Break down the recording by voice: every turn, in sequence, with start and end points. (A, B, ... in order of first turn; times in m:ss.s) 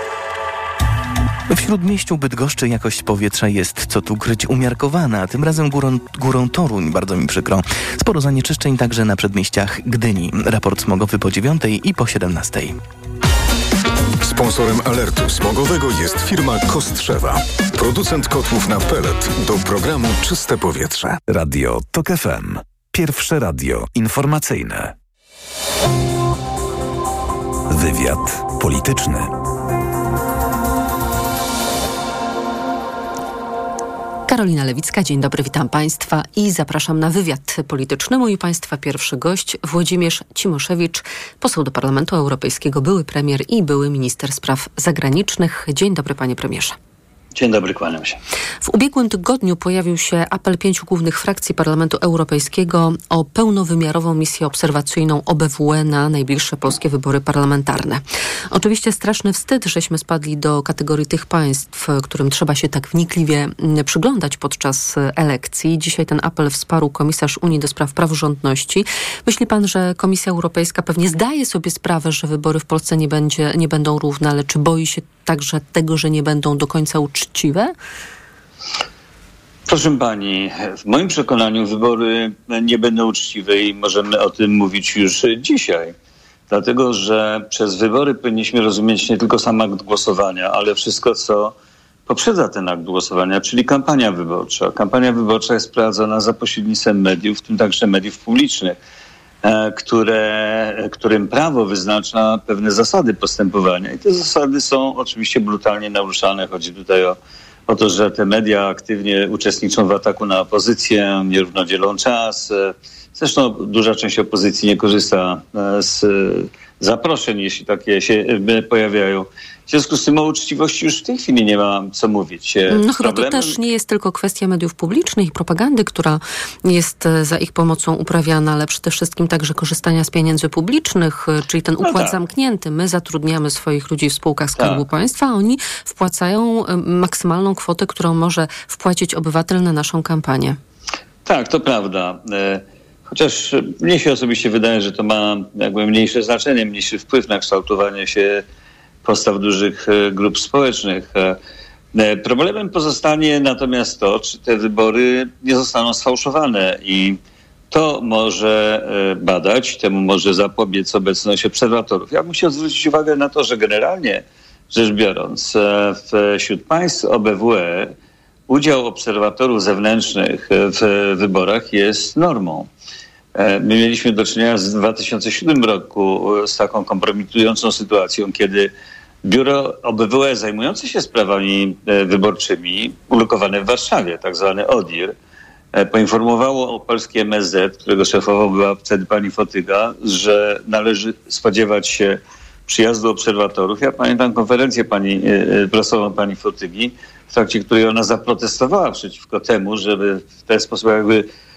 0:01.5-0:12.8 A
0:14.2-0:21.2 B
0:21.3-0:24.9 C
0:27.7-0:29.3 C
0:34.3-0:46.8 D
0:47.4-0:48.2 E
0:48.6-1:17.7 D
1:19.7-1:25.9 E
1:26.5-1:31.5 E
1:32.1-1:38.8 E
1:39.4-1:47.2 E
1:47.7-2:03.5 E
2:02.7-2:20.6 D
2:11.8-2:12.2 E
2:21.2-2:28.4 E
2:29.0-2:31.4 E
2:31.9-2:37.2 E
2:37.7-2:47.9 E
2:48.5-2:52.7 E
2:53.3-2:58.7 E
2:59.2-3:05.1 E
3:05.7-3:21.3 E